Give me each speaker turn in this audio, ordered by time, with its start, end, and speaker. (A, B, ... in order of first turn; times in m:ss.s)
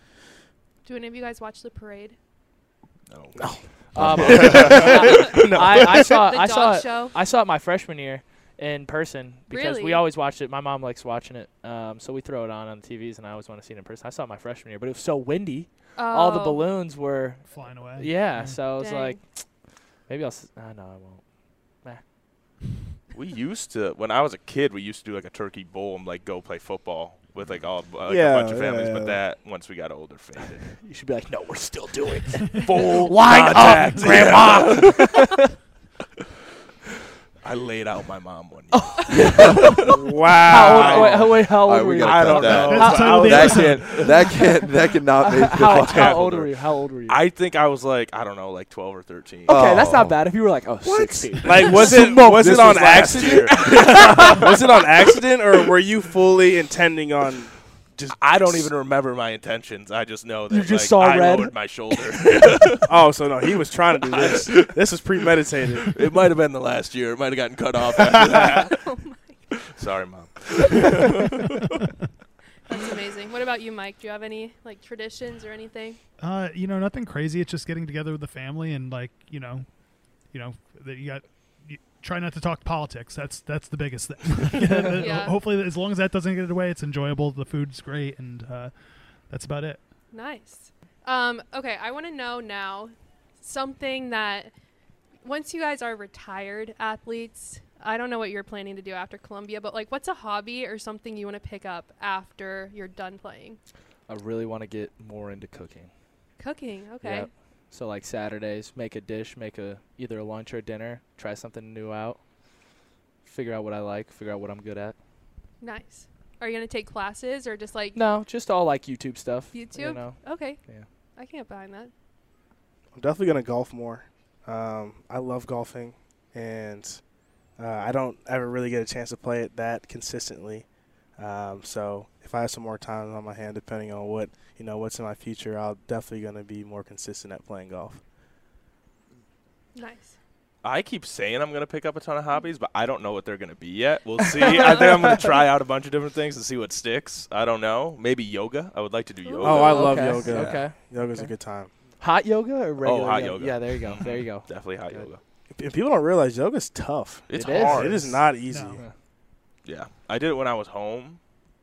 0:00.8-0:02.2 A
0:03.1-0:03.5 B
0:03.4-0:05.9 C
0:03.9-0:19.5 D
0:04.0-0:04.7 E
0:04.0-0:05.4 B
0:05.1-0:07.2 A
0:09.5-0:10.0 A
0:16.0-0:16.7 A
0:17.5-0:18.6 F
0:18.7-0:19.2 A
0:20.0-0:22.0 D
0:23.1-0:30.8 B
0:28.1-0:29.2 C
0:30.8-0:35.5 D
0:32.6-0:35.1 B
0:37.4-0:44.1 B
0:38.7-0:44.6 D
0:39.1-0:39.9 E
0:39.8-0:41.2 C
0:41.4-0:46.5 E
0:42.6-0:44.1 F
0:45.2-0:47.2 D
0:45.6-0:46.5 B
0:47.1-0:49.7 B
0:49.5-0:54.7 D
0:49.5-0:50.4 E
0:51.3-0:58.7 C
0:51.6-0:54.4 B
0:58.2-1:02.8 B
1:00.5-1:02.4 D
1:02.8-1:05.9 C
1:04.1-1:04.8 B
1:05.8-1:08.8 B
1:08.6-1:09.6 A
1:09.7-1:11.6 B
1:12.6-1:16.0 A
1:16.2-1:19.7 F
1:20.3-1:28.7 F
1:24.9-1:25.4 A
1:29.3-1:29.8 F
1:30.1-1:34.5 A
1:35.2-1:43.6 A
1:44.1-1:45.9 D
1:46.4-1:47.3 A
1:47.0-1:52.2 D
1:53.2-1:55.0 D
1:55.6-1:58.0 A
1:57.9-2:00.8 D
1:59.5-2:00.6 A
2:01.2-2:01.9 A
2:02.9-2:07.0 C
2:07.6-2:18.0 C
2:19.7-2:20.2 A
2:20.6-2:30.1 B
2:24.4-2:25.2 D
2:29.2-2:30.3 A
2:29.4-2:31.7 C
2:29.6-2:31.3 D
2:32.0-2:35.1 D
2:32.8-2:35.2 B
2:35.5-2:38.8 C
2:37.3-2:38.2 B
2:37.3-2:37.9 D
2:38.4-2:38.8 F
2:39.6-2:41.2 B